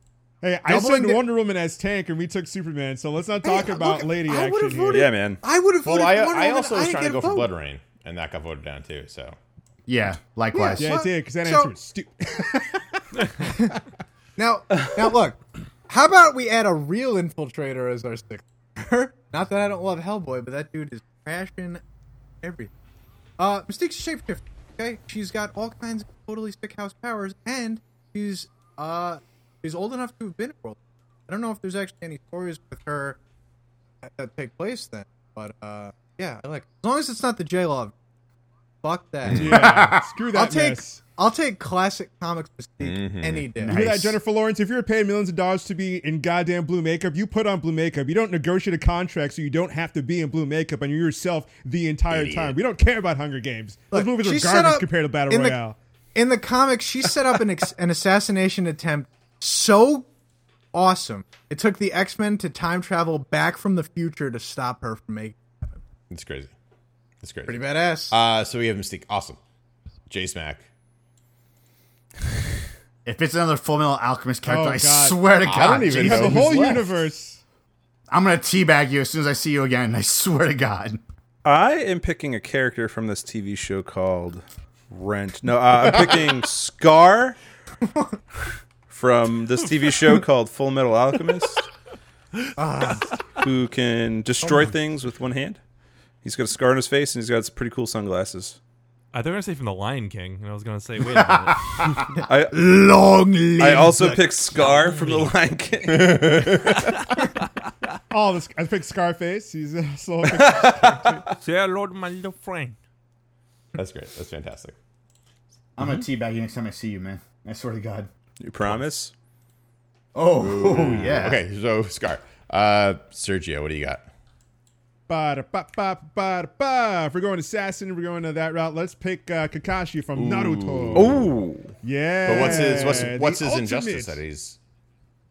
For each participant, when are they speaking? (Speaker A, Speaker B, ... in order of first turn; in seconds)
Speaker A: 0.4-5.1, 10.7-13.7, 39.3-41.0, 43.6-55.8, 74.4-77.4, 108.1-111.3, 125.1-131.3, 131.8-134.2
Speaker B: 0.7-1.2, 3.4-7.5, 10.5-11.7, 13.4-13.8, 14.4-21.8, 22.4-22.7, 23.4-33.2, 34.0-37.9, 38.8-39.7, 40.3-43.8, 53.9-55.6, 56.1-60.1, 60.7-65.4, 67.5-68.1, 87.8-88.1, 92.6-93.1, 94.4-94.7, 102.1-104.3
Speaker C: 4.9-5.4, 81.4-87.4, 88.9-91.6, 93.3-95.6, 96.2-98.6, 102.3-102.6, 103.6-106.2, 118.4-119.1, 130.9-131.7, 132.3-132.6
Speaker D: 5.8-9.4, 39.2-39.7, 42.8-43.7, 52.1-52.6, 66.1-66.5, 67.2-69.4, 70.1-70.7, 75.4-77.0, 105.9-107.0, 113.7-114.7, 120.3-124.0, 130.1-131.4, 132.2-134.6
Speaker E: 9.9-10.9, 39.4-40.1, 43.7-44.2, 73.0-76.8, 78.1-81.0, 115.8-118.1, 120.1-121.4
Speaker F: 99.1-101.9, 104.5-105.3, 111.4-112.8